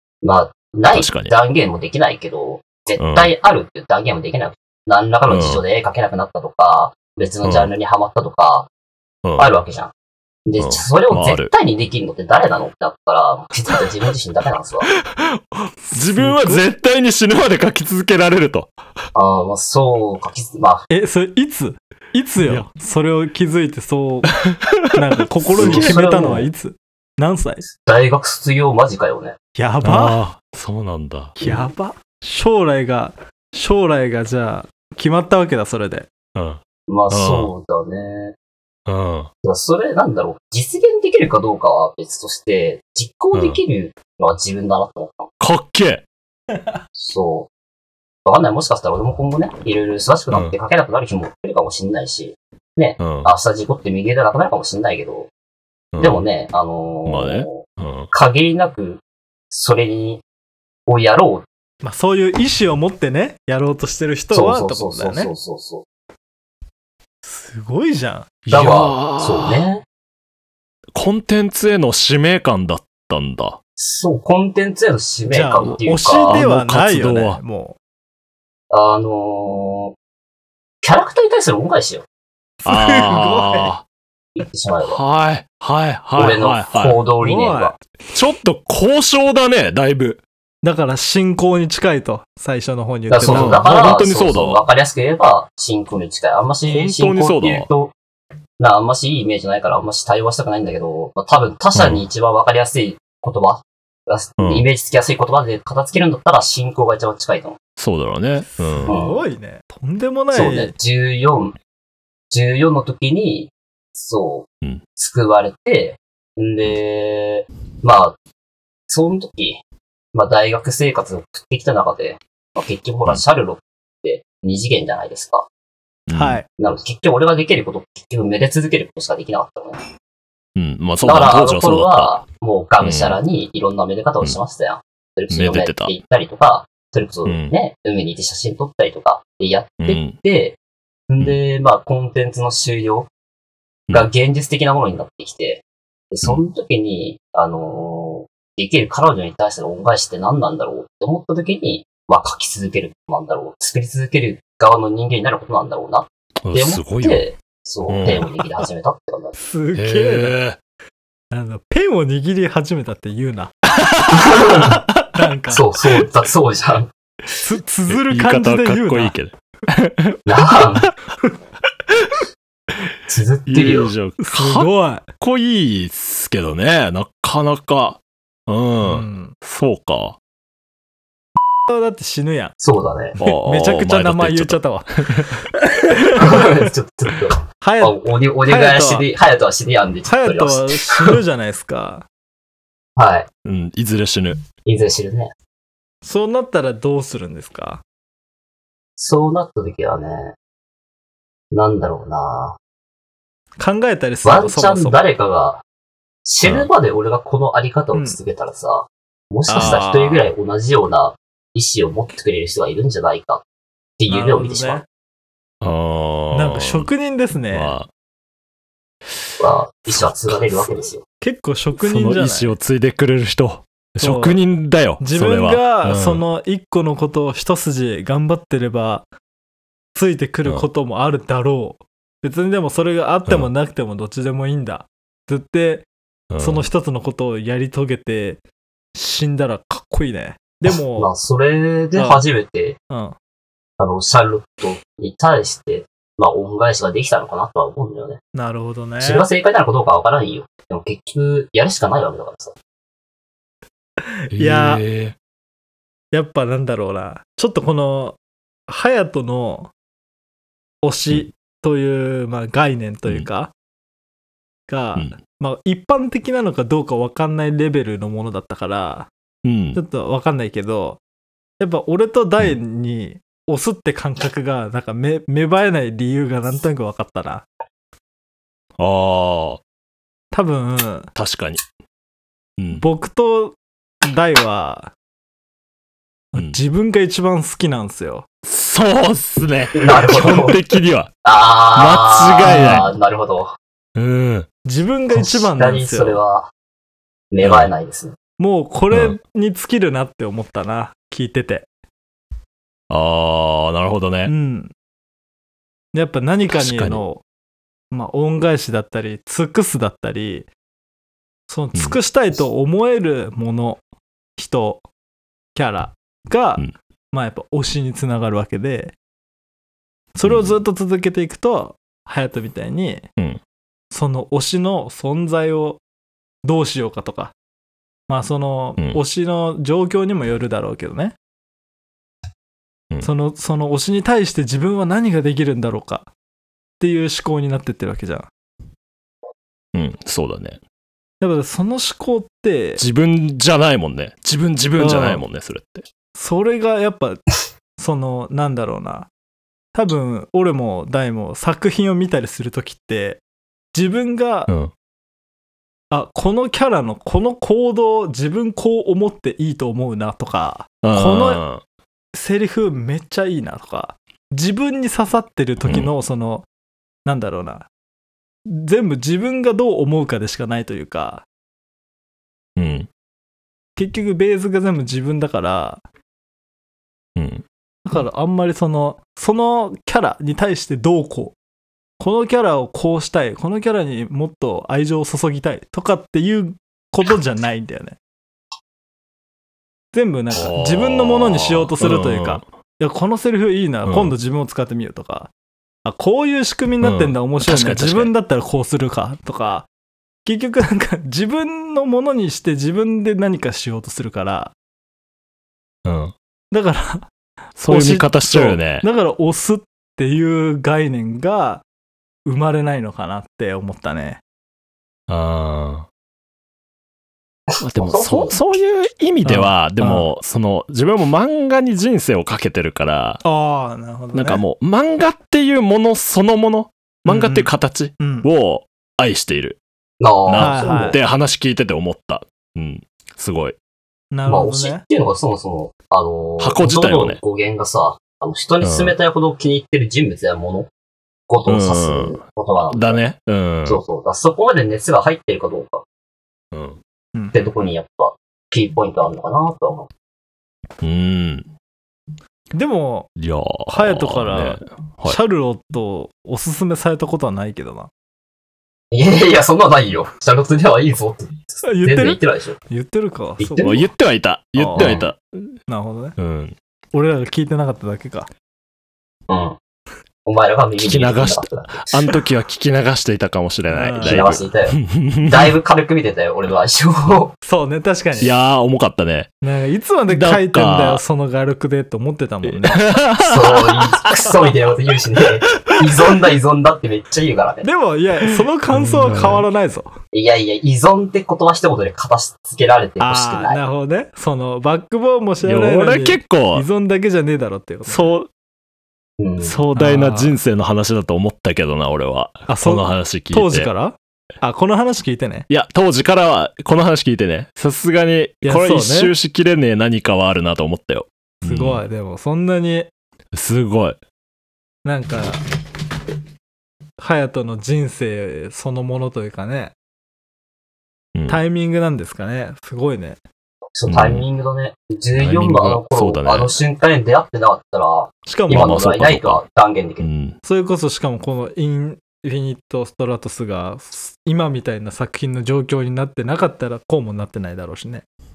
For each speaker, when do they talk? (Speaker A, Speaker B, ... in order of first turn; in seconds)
Speaker A: 0.2-8.7, 9.4-9.9, 10.5-14.9, 19.1-20.9, 25.6-26.5, 27.8-29.4, 36.9-38.4, 39.4-45.3, 47.0-47.5, 48.2-55.3, 56.0-57.6, 58.1-60.2, 60.9-61.5, 64.3-65.8, 68.5-69.8, 73.8-76.5, 78.7-79.9, 80.8-82.0, 84.3-85.0, 86.2-87.8, 93.1-97.9, 98.6-107.6, 108.9-109.2, 110.3-111.6, 112.3-118.2, 118.9-119.6, 120.1-125.5, 126.6-129.8, 131.0-140.6, 141.1-143.1, 143.9-159.4, 164.1-164.8, 165.5-166.9, 170.3-170.9, 173.1-173.9, 182.6-183.2, 186.1-191.2, 193.0-193.3, 194.7-195.3, 199.0-200.3, 201.5-202.6, 204.2-205.6, 206.2-213.4, 214.0-214.8, 219.4-221.0, 241.0-242.8, 243.8-248.2, 249.0-252.6, 289.8-290.6, 291.2-293.5, 295.1-296.5, 297.3-298.2, 417.5-418.4, 430.0-431.0, 434.3-440.7, 441.3-443.0, 443.7-445.9, 447.3-449.9, 458.9-462.6, 463.4-463.9, 464.8-465.1, 469.3-469.6, 470.3-472.2, 474.0-477.3, 483.2-487.7, 490.1-493.6, 499.2-499.6, 523.8-530.1
Speaker B: 0.9-1.3, 3.0-3.3, 5.3-5.6, 7.4-7.7, 9.2-9.5, 10.6-11.5, 15.1-18.7, 24.4-26.0, 29.8-31.4, 36.4-37.5, 38.9-39.3, 43.3-43.6, 45.4-46.0, 53.0-53.3, 55.9-56.2, 57.1-58.1, 68.5-69.7, 71.0-73.6, 76.3-77.4, 82.7-83.8, 84.8-87.0, 88.1-90.2, 93.3-94.6, 96.7-97.7, 101.8-102.0, 104.4-104.7, 107.8-108.9, 126.1-126.4, 130.6-132.2, 132.8-133.2, 135.3-135.9, 137.3-137.5, 139.8-140.2, 156.4-157.3, 157.9-158.3, 159.7-160.6, 163.8-165.1, 167.9-170.3, 173.5-180.2, 183.2-185.3, 193.4-194.4, 206.4-206.7, 215.6-216.9, 217.5-217.9, 219.9-220.4, 221.8-226.2, 236.3-236.7, 254.3-255.2, 269.4-269.8, 278.8-279.6, 281.1-281.6, 282.6-282.8, 286.4-286.6, 288.4-291.1, 291.7-292.9, 294.0-294.5, 297.4-297.7, 298.9-299.2, 302.9-304.3, 306.5-307.0, 320.2-320.6, 339.8-340.6, 342.8-345.9, 360.8-361.6, 365.6-365.9, 372.6-372.9, 377.2-377.4, 390.3-392.4, 393.9-394.1, 396.8-398.1, 405.9-406.1, 407.6-408.9, 415.1-415.9, 417.6-423.2, 424.1-429.6, 430.2-433.6, 436.4-437.2, 438.6-438.9, 441.5-443.8, 446.5-446.8, 450.8-451.5, 453.2-455.2, 463.6-465.5, 466.2-466.6, 470.8-475.6, 478.2-479.3, 480.1-481.0, 482.4-484.3, 488.7-489.4, 495.4-496.7, 497.9-498.3, 499.4-503.7, 505.5-511.8, 513.3-514.0, 521.1-521.4, 523.9-524.2, 525.2-526.6, 528.5-529.4, 530.0-530.4
Speaker C: 16.1-16.6, 20.9-24.3, 24.9-27.6, 29.6-30.2, 31.4-36.1, 61.8-65.3, 67.2-68.8, 75.3-77.8, 82.6-83.7, 87.2-87.8, 90.6-93.7, 108.7-110.7, 126.1-126.5, 159.4-160.4, 161.3-163.5, 165.1-165.7, 167.4-169.1, 174.2-175.1, 178.8-179.3, 181.7-182.6, 183.2-186.7, 187.6-189.1, 190.1-192.1, 196.0-197.8, 203.6-205.0, 209.5-210.3, 214.1-214.8, 216.3-217.8, 221.2-222.6, 224.0-224.4, 225.0-229.1, 229.9-235.9, 236.4-238.4, 238.9-241.1, 241.9-242.2, 242.9-243.2, 248.3-249.3, 254.2-254.8, 256.1-258.2, 258.7-259.7, 260.8-263.5, 264.7-269.1, 269.8-271.0, 271.6-277.4, 280.3-281.1, 282.8-284.9, 286.3-288.3, 292.5-292.9, 294.6-296.2, 298.4-301.7, 304.3-304.7, 305.9-307.2, 307.9-310.5, 311.5-313.8, 314.4-314.8, 315.6-318.9, 320.2-323.1, 323.9-325.8, 326.4-327.3, 328.1-331.1, 333.0-336.1, 336.8-338.3, 341.2-342.8, 344.8-345.2, 346.2-349.1, 349.7-353.2, 353.7-354.5, 355.9-361.4, 362.1-366.5, 367.1-367.7, 368.5-371.2, 373.8-375.8, 377.9-381.4, 382.0-388.0, 389.9-395.3, 395.9-399.7, 400.2-404.5, 406.5-407.1, 407.7-411.6, 412.3-414.2, 419.2-420.1, 423.2-424.4, 427.1-428.3, 430.4-431.0, 434.1-434.8, 447.1-447.4, 452.5-453.1, 453.7-457.9, 461.6-463.9, 464.6-465.0, 465.7-466.2, 466.9-468.3, 473.7-474.4, 477.4-478.3, 479.4-482.9, 487.6-489.9, 493.0-498.1, 499.8-500.4, 502.5-505.5, 508.4-509.1, 511.4-512.9, 514.9-515.5, 517.0-519.7, 521.3-523.2, 528.3-528.8, 530.4-538.0